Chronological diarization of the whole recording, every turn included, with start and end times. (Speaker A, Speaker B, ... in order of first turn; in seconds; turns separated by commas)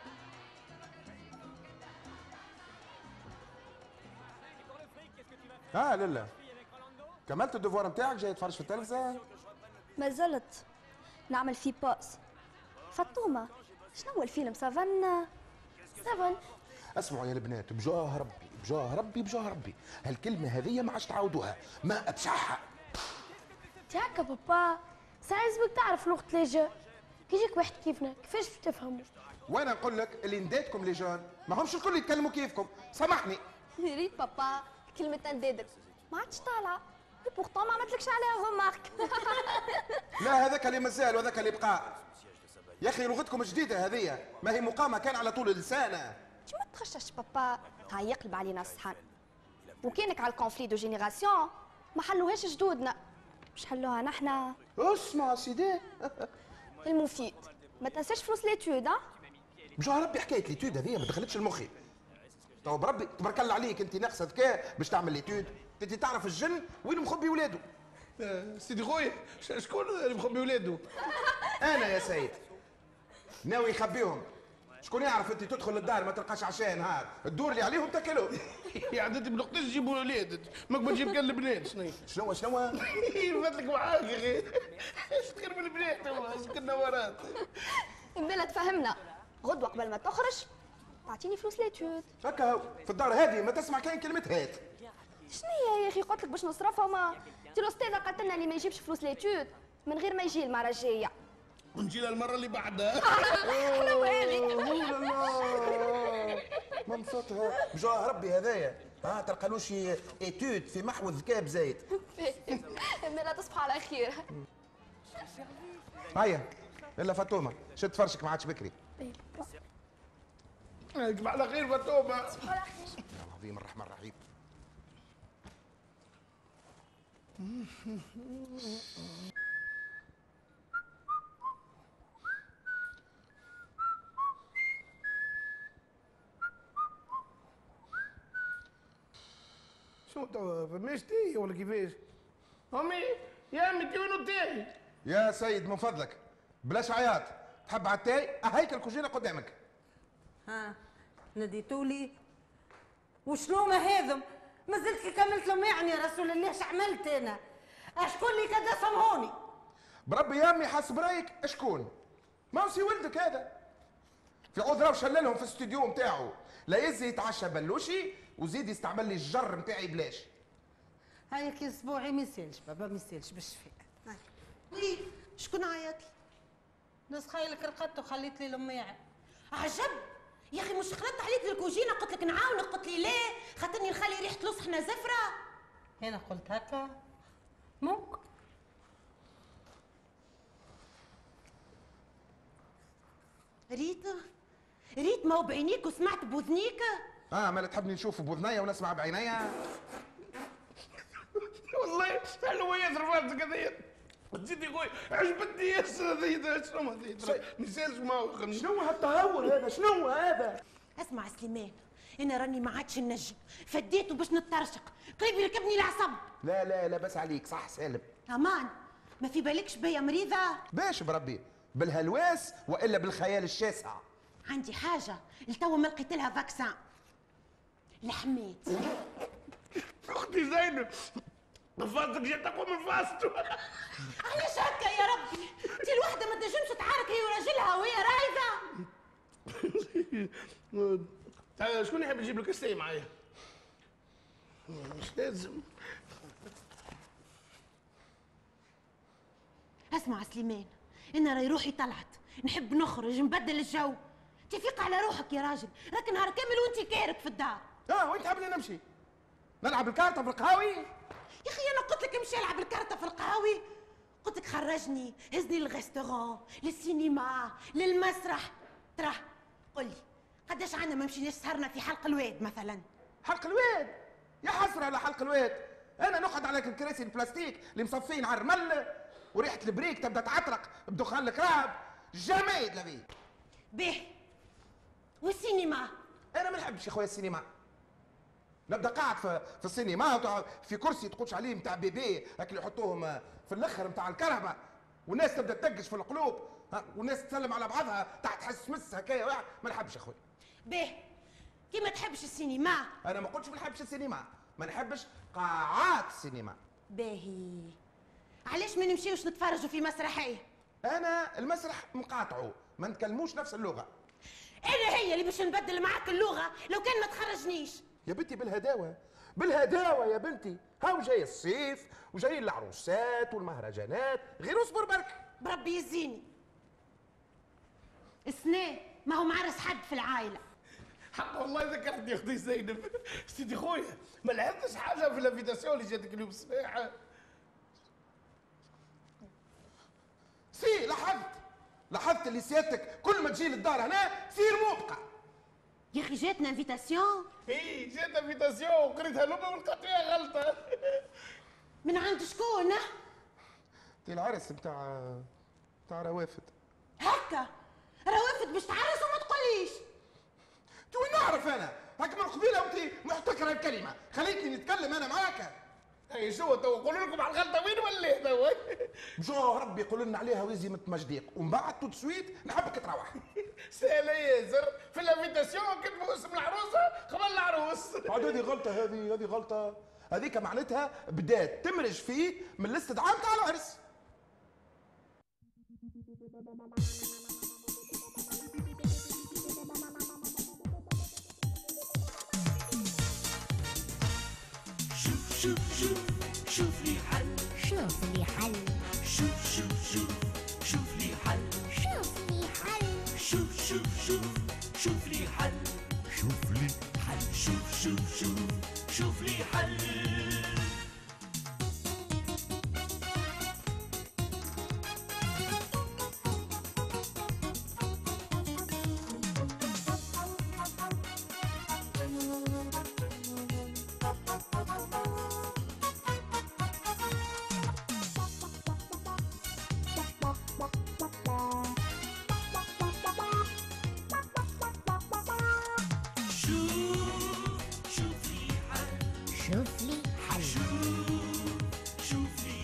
Speaker A: 5.7-6.3, Speaker A: 7.3-9.2, Speaker B: 10.0-10.6, Speaker B: 11.3-12.2, Speaker B: 12.9-15.3, Speaker C: 16.0-16.4, Speaker A: 17.0-22.6, Speaker C: 23.9-26.7, Speaker C: 27.3-29.1, Speaker A: 29.5-33.4, Speaker B: 33.8-39.9, Speaker A: 40.2-42.0, Speaker A: 42.8-46.2, Speaker B: 46.5-49.0, Speaker B: 49.8-53.0, Speaker B: 53.5-54.5, Speaker A: 54.8-56.3, Speaker B: 56.8-59.0, Speaker A: 59.8-61.7, Speaker A: 62.6-67.6, Speaker D: 68.2-70.8, Speaker A: 71.6-72.4, Speaker A: 73.4-74.2, Speaker A: 74.8-78.4, Speaker D: 78.7-82.0, Speaker A: 82.0-82.8, Speaker D: 82.8-87.4, Speaker B: 88.1-90.5, Speaker B: 91.0-92.1, Speaker A: 92.2-94.6, Speaker B: 95.3-101.1, Speaker D: 101.7-103.5, Speaker B: 103.0-106.4, Speaker A: 103.4-111.8, Speaker B: 112.0-114.3, Speaker A: 116.1-118.8, Speaker B: 119.0-119.4, Speaker D: 120.9-122.5, Speaker B: 122.3-123.0, Speaker A: 123.1-124.2, Speaker D: 127.4-128.9, Speaker D: 140.1-142.0, Speaker D: 142.7-144.7, Speaker A: 145.0-149.6, Speaker E: 150.5-150.7, Speaker E: 151.3-152.1, Speaker E: 153.2-157.4, Speaker E: 158.0-159.4, Speaker A: 160.1-161.9, Speaker A: 162.5-163.5, Speaker A: 164.5-170.3, Speaker E: 171.3-174.2, Speaker F: 174.7-176.1, Speaker E: 177.1-179.0, Speaker F: 179.5-185.3, Speaker E: 186.0-186.9, Speaker E: 187.8-188.2, Speaker F: 193.7-194.2, Speaker F: 195.0-197.0, Speaker A: 197.3-199.6, Speaker D: 201.6-208.7, Speaker A: 208.5-210.6, Speaker F: 211.0-216.2, Speaker A: 216.4-218.1, Speaker F: 218.3-220.6, Speaker A: 220.7-224.0, Speaker F: 224.5-226.8, Speaker F: 228.0-228.8, Speaker D: 230.0-231.0, Speaker D: 231.8-233.6, Speaker F: 234.2-238.6, Speaker D: 239.5-243.1, Speaker D: 244.7-245.7, Speaker F: 249.9-257.6, Speaker A: 257.9-258.8, Speaker A: 259.6-260.9, Speaker F: 261.4-263.6, Speaker F: 264.2-272.8, Speaker A: 273.2-283.1, Speaker F: 283.7-284.1, Speaker F: 285.2-285.9, Speaker A: 286.3-287.4, Speaker A: 288.7-300.2, Speaker F: 300.6-301.0, Speaker F: 301.7-302.9, Speaker A: 303.0-306.6, Speaker F: 306.9-307.8, Speaker F: 308.5-310.4, Speaker A: 310.8-313.9, Speaker F: 314.6-317.8, Speaker A: 318.1-325.2, Speaker F: 325.4-326.3, Speaker F: 328.2-330.4, Speaker D: 331.1-336.9, Speaker A: 340.5-345.0, Speaker F: 345.9-347.3, Speaker D: 347.5-351.0, Speaker F: 351.8-352.8, Speaker A: 354.0-355.3, Speaker A: 355.9-356.5, Speaker F: 357.0-357.5, Speaker F: 358.1-359.8, Speaker A: 360.9-365.5, Speaker D: 366.1-369.1, Speaker A: 369.2-373.2, Speaker D: 373.7-378.4, Speaker A: 378.1-383.8, Speaker G: 397.5-399.7, Speaker G: 400.9-404.3, Speaker G: 404.8-405.4, Speaker G: 406.2-408.3, Speaker G: 439.3-441.2